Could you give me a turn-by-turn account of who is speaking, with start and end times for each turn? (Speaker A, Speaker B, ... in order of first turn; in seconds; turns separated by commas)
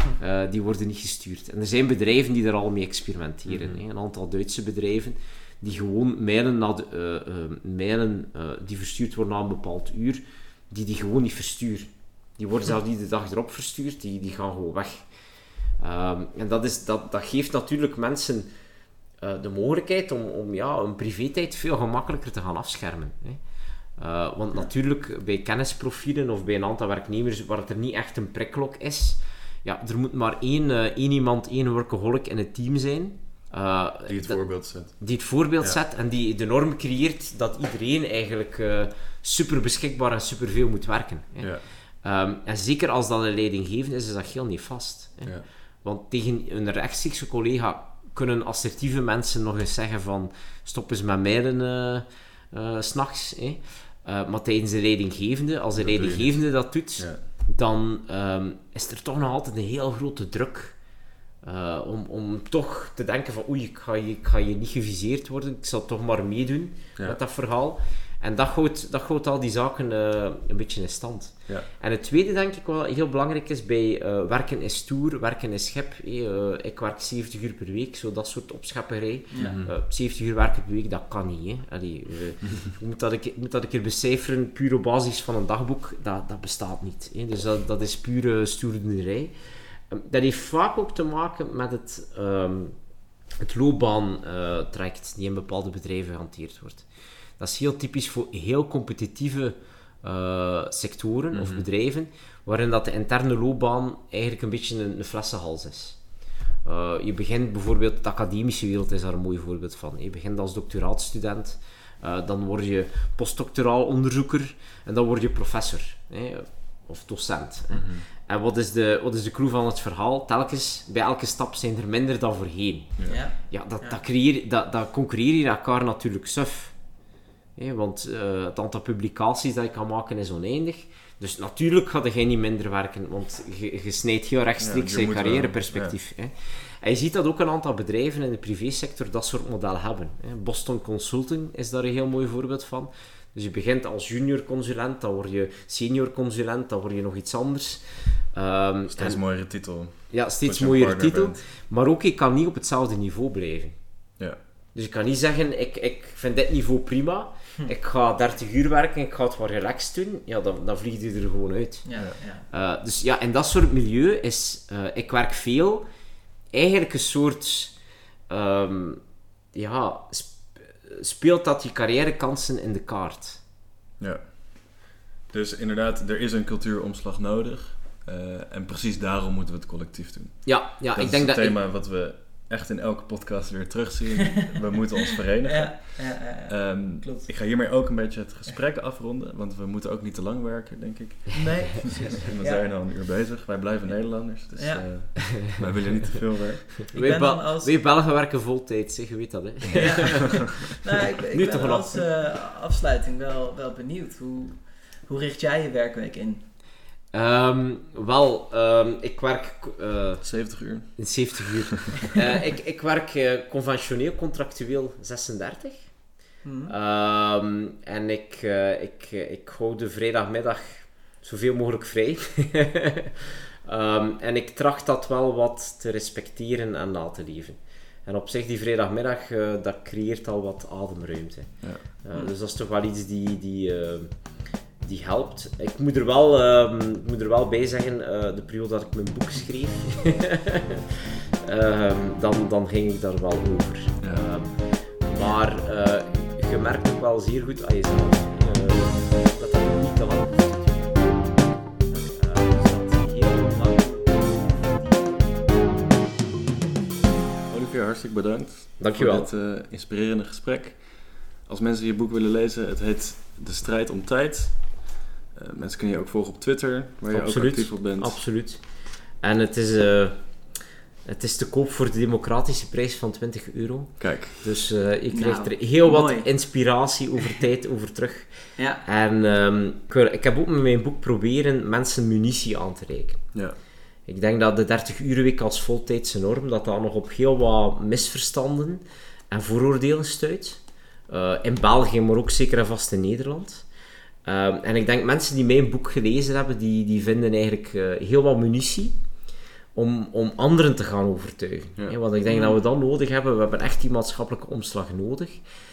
Speaker A: 0.1-15.1, Speaker B: 3.5-3.8, Speaker A: 15.8-18.5, Speaker A: 19.2-23.4, Speaker A: 24.0-60.8, Speaker B: 34.1-35.1, Speaker B: 41.4-41.6, Speaker B: 55.7-57.2, Speaker A: 61.4-92.7, Speaker C: 79.3-79.6, Speaker B: 79.4-79.7, Speaker A: 93.4-96.8, Speaker A: 97.4-106.0, Speaker B: 101.3-101.7, Speaker A: 106.6-126.8, Speaker B: 117.7-118.0, Speaker B: 123.0-123.2, Speaker C: 123.0-124.0, Speaker A: 127.5-149.2, Speaker B: 134.6-136.0, Speaker B: 148.9-151.4, Speaker A: 150.1-153.8, Speaker A: 154.7-161.9, Speaker C: 161.8-162.4, Speaker A: 162.5-165.8, Speaker A: 166.5-167.7, Speaker A: 168.3-169.0, Speaker A: 169.5-173.4, Speaker B: 174.0-196.7, Speaker A: 180.4-181.6, Speaker C: 185.4-187.3, Speaker C: 191.3-192.8, Speaker C: 194.3-194.9, Speaker A: 196.8-200.7, Speaker C: 196.9-197.7, Speaker C: 199.7-206.4, Speaker B: 199.7-200.1, Speaker A: 201.3-202.0, Speaker A: 207.1-210.3, Speaker B: 210.2-211.9, Speaker A: 210.9-215.9, Speaker C: 216.4-216.7, Speaker A: 216.7-234.2, Speaker B: 231.6-231.9, Speaker A: 234.8-255.5, Speaker B: 244.0-244.3, Speaker B: 257.5-268.2, Speaker A: 258.8-259.3, Speaker A: 267.1-268.6, Speaker A: 269.1-270.4, Speaker A: 271.0-283.3, Speaker B: 274.0-274.4, Speaker C: 275.1-276.3, Speaker C: 278.6-278.8, Speaker A: 284.1-293.6, Speaker A: 294.2-298.9, Speaker A: 299.7-305.4, Speaker C: 302.3-302.6